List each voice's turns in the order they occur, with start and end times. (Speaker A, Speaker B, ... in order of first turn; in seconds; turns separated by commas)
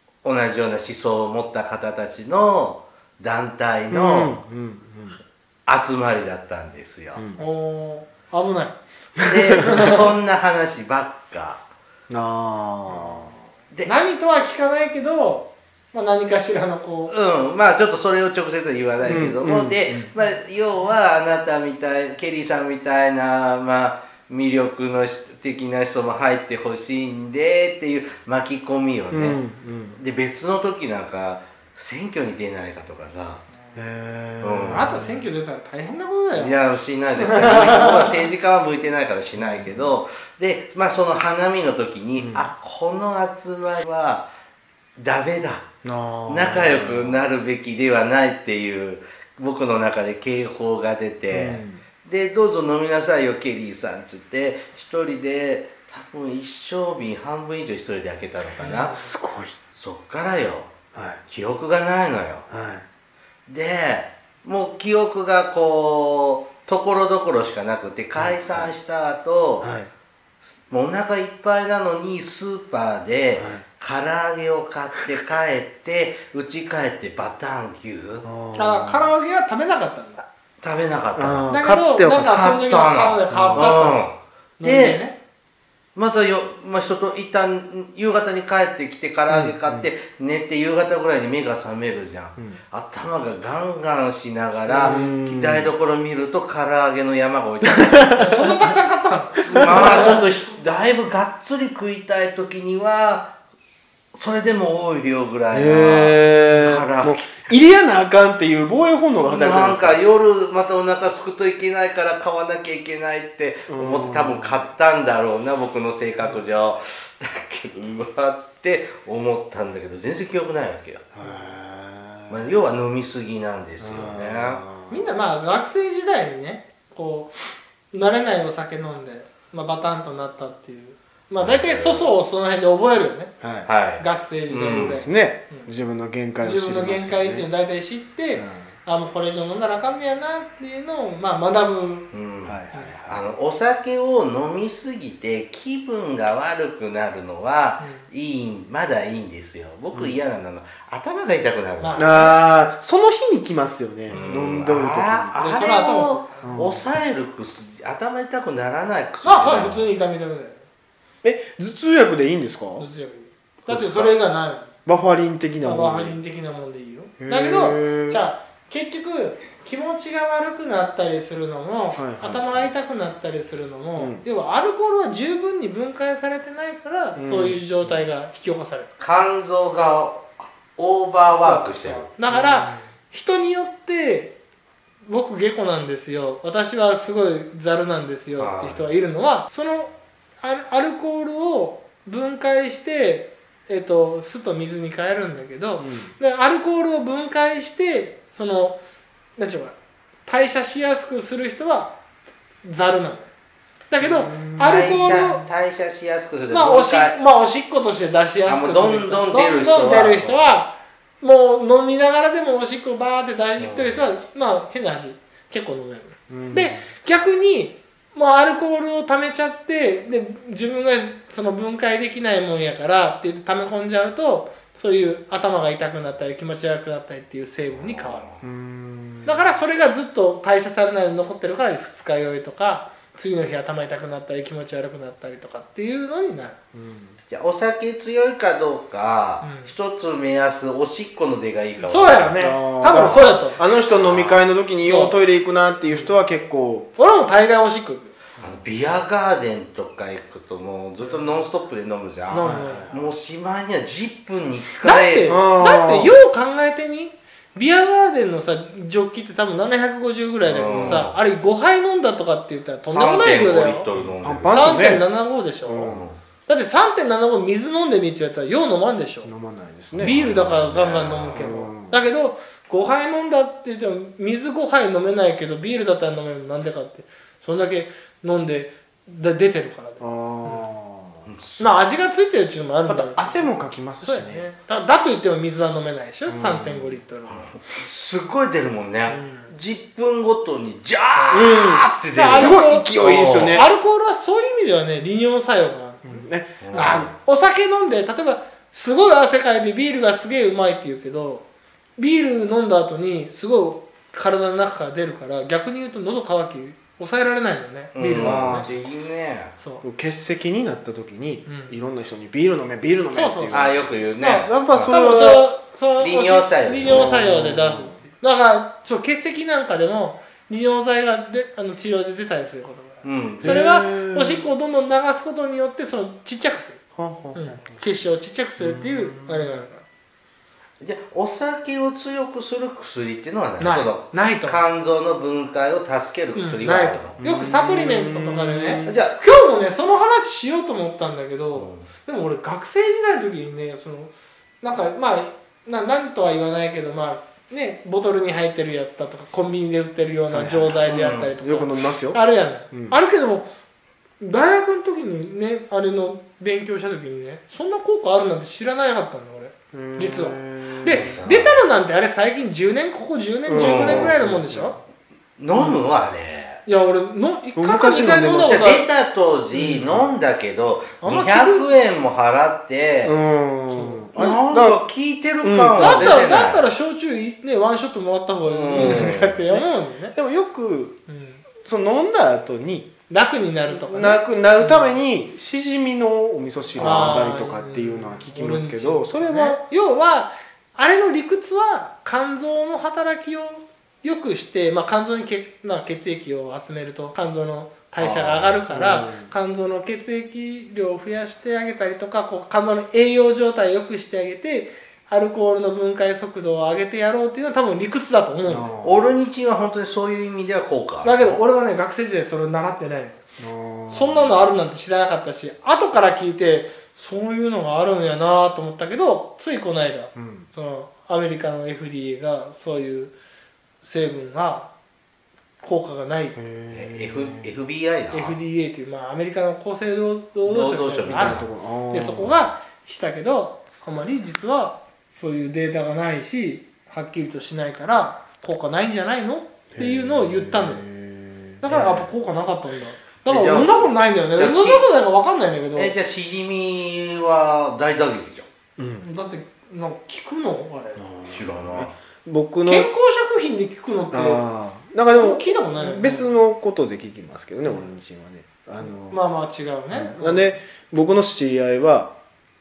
Speaker A: 0.2-4.4, Speaker B: 3.9-5.2, Speaker A: 5.7-7.2, Speaker B: 7.2-7.5, Speaker C: 7.4-8.8, Speaker B: 9.2-9.6, Speaker A: 9.3-11.6, Speaker C: 9.6-10.0, Speaker B: 12.1-13.3, Speaker C: 12.9-13.3, Speaker C: 13.8-17.1, Speaker A: 17.1-29.4, Speaker B: 19.1-20.1, Speaker B: 29.1-30.0, Speaker A: 30.0-33.4, Speaker B: 33.8-35.2, Speaker A: 34.4-35.0, Speaker C: 34.7-36.6, Speaker A: 36.3-44.3, Speaker C: 37.1-38.1, Speaker B: 39.4-39.9, Speaker B: 42.2-42.5, Speaker A: 45.0-45.7, Speaker B: 45.8-47.3, Speaker A: 46.3-59.1, Speaker B: 51.3-51.8, Speaker C: 58.6-59.1, Speaker B: 59.0-59.6, Speaker A: 59.7-60.7, Speaker B: 60.9-61.2, Speaker A: 61.3-62.5, Speaker B: 62.5-62.9, Speaker A: 63.5-69.7, Speaker B: 68.2-68.7, Speaker B: 69.6-69.9, Speaker A: 70.7-78.3, Speaker B: 73.4-73.7, Speaker B: 78.2-79.1, Speaker C: 78.5-80.2, Speaker A: 80.6-81.5, Speaker B: 81.2-82.4, Speaker C: 81.5-84.0, Speaker A: 82.2-85.0, Speaker B: 83.3-83.7, Speaker C: 84.6-85.2, Speaker A: 86.0-98.5, Speaker B: 89.3-89.9, Speaker C: 94.6-95.1, Speaker B: 94.7-95.7, Speaker B: 97.6-98.4, Speaker C: 98.2-100.2, Speaker B: 99.5-100.2, Speaker A: 99.5-103.3, Speaker A: 104.1-107.5, Speaker B: 105.5-110.0, Speaker A: 109.3-121.0, Speaker B: 113.7-114.6, Speaker B: 121.2-122.6, Speaker A: 122.3-124.6, Speaker B: 123.8-125.1, Speaker C: 124.9-127.3, Speaker C: 127.9-133.3, Speaker A: 131.4-132.1, Speaker B: 133.4-133.7, Speaker A: 133.7-135.0, Speaker C: 134.0-135.7, Speaker B: 134.8-137.5, Speaker C: 136.4-142.1, Speaker B: 138.4-138.7, Speaker A: 142.1-152.3, Speaker B: 142.4-143.2, Speaker C: 142.7-143.0, Speaker C: 147.8-148.1, Speaker C: 151.8-152.4, Speaker B: 152.0-155.4, Speaker A: 154.1-159.9, Speaker C: 155.4-156.6, Speaker B: 156.4-156.9, Speaker C: 159.2-160.6, Speaker B: 161.2-162.9, Speaker C: 162.8-164.7, Speaker B: 163.7-164.1, Speaker B: 164.9-166.2, Speaker C: 165.6-178.9, Speaker B: 167.2-168.2, Speaker B: 172.0-172.7, Speaker B: 174.0-174.2, Speaker B: 177.2-177.6, Speaker A: 179.0-182.1, Speaker C: 181.3-184.3, Speaker B: 182.3-182.8, Speaker C: 185.1-198.8, Speaker A: 188.4-188.9, Speaker B: 195.8-196.1, Speaker C: 199.4-201.9, Speaker C: 202.6-203.3, Speaker C: 203.9-205.4, Speaker B: 204.0-204.9, Speaker A: 204.6-207.2, Speaker C: 206.5-228.2, Speaker A: 208.4-210.5, Speaker A: 213.6-214.1, Speaker B: 216.3-216.9, Speaker A: 227.7-228.4, Speaker B: 228.4-229.5, Speaker C: 229.2-236.6, Speaker B: 236.7-237.2, Speaker A: 237.3-243.3, Speaker C: 239.4-239.7, Speaker C: 241.8-243.6, Speaker B: 242.4-246.9, Speaker A: 243.9-244.6, Speaker C: 244.8-245.2, Speaker C: 247.0-248.1, Speaker A: 248.4-255.4, Speaker C: 251.0-251.4, Speaker C: 252.3-252.9, Speaker B: 252.4-253.1, Speaker C: 254.8-263.9, Speaker B: 255.3-256.1, Speaker A: 260.4-261.2, Speaker B: 260.7-261.1, Speaker A: 262.8-264.8, Speaker B: 263.9-265.1, Speaker C: 264.5-265.9, Speaker B: 265.6-266.1, Speaker A: 265.8-266.2, Speaker C: 266.5-269.3, Speaker B: 269.2-270.2, Speaker A: 269.9-271.5, Speaker C: 270.0-280.7, Speaker B: 271.4-272.0, Speaker B: 280.0-281.3, Speaker A: 281.3-281.8, Speaker C: 281.6-287.5, Speaker B: 282.9-284.4, Speaker B: 286.3-287.0, Speaker A: 287.3-293.6, Speaker C: 289.1-289.5, Speaker C: 291.1-301.5, Speaker B: 291.3-293.7, Speaker B: 296.1-297.1, Speaker A: 296.6-297.1, Speaker C: 302.0-308.7, Speaker A: 307.9-309.6, Speaker B: 308.2-308.7, Speaker C: 309.6-309.8, Speaker B: 309.8-315.5, Speaker C: 311.5-311.9, Speaker C: 313.1-326.8, Speaker A: 313.5-314.9, Speaker A: 316.0-317.1, Speaker B: 316.8-318.0, Speaker A: 323.0-323.6, Speaker B: 323.4-324.5, Speaker B: 327.0-327.8, Speaker C: 327.3-329.8, Speaker B: 328.6-329.5, Speaker A: 330.8-337.2, Speaker C: 333.6-334.6, Speaker C: 336.4-353.5, Speaker B: 337.2-339.0, Speaker A: 338.8-339.2, Speaker A: 341.5-341.9, Speaker B: 350.3-350.9, Speaker A: 350.8-351.3, Speaker B: 351.4-353.0, Speaker C: 354.2-364.8, Speaker B: 359.7-361.2, Speaker A: 360.8-361.6, Speaker B: 363.4-364.8, Speaker A: 363.6-364.2, Speaker A: 365.4-366.6, Speaker C: 366.7-368.9, Speaker B: 367.6-368.6, Speaker A: 368.4-373.2, Speaker B: 369.5-370.1, Speaker C: 371.0-371.7, Speaker B: 373.0-374.8, Speaker C: 373.7-374.1, Speaker A: 374.1-376.7, Speaker B: 375.4-376.1, Speaker C: 375.8-380.2, Speaker A: 378.4-379.4, Speaker B: 378.8-381.0, Speaker C: 381.1-381.4, Speaker B: 381.6-382.9, Speaker C: 383.1-385.0, Speaker B: 383.7-389.6, Speaker C: 386.8-408.7, Speaker A: 386.8-387.2, Speaker A: 398.0-398.6, Speaker B: 398.7-399.3, Speaker B: 408.5-409.1, Speaker A: 408.8-411.4, Speaker C: 411.0-413.2, Speaker B: 413.4-414.3, Speaker C: 413.9-423.1, Speaker B: 420.1-420.5, Speaker C: 423.8-424.7, Speaker C: 425.6-426.4, Speaker B: 426.4-427.5, Speaker A: 426.7-428.4, Speaker C: 428.1-440.9, Speaker A: 430.4-431.5, Speaker B: 431.1-432.4, Speaker B: 439.7-441.7, Speaker C: 441.6-445.9, Speaker A: 441.7-442.1, Speaker A: 443.2-444.9, Speaker A: 445.8-448.5, Speaker B: 448.8-449.1, Speaker C: 449.0-451.0, Speaker B: 451.0-452.9, Speaker A: 451.3-451.9, Speaker C: 452.7-454.4, Speaker B: 454.1-459.2, Speaker C: 455.1-456.3, Speaker C: 457.6-457.9, Speaker C: 458.8-460.5, Speaker B: 459.9-462.1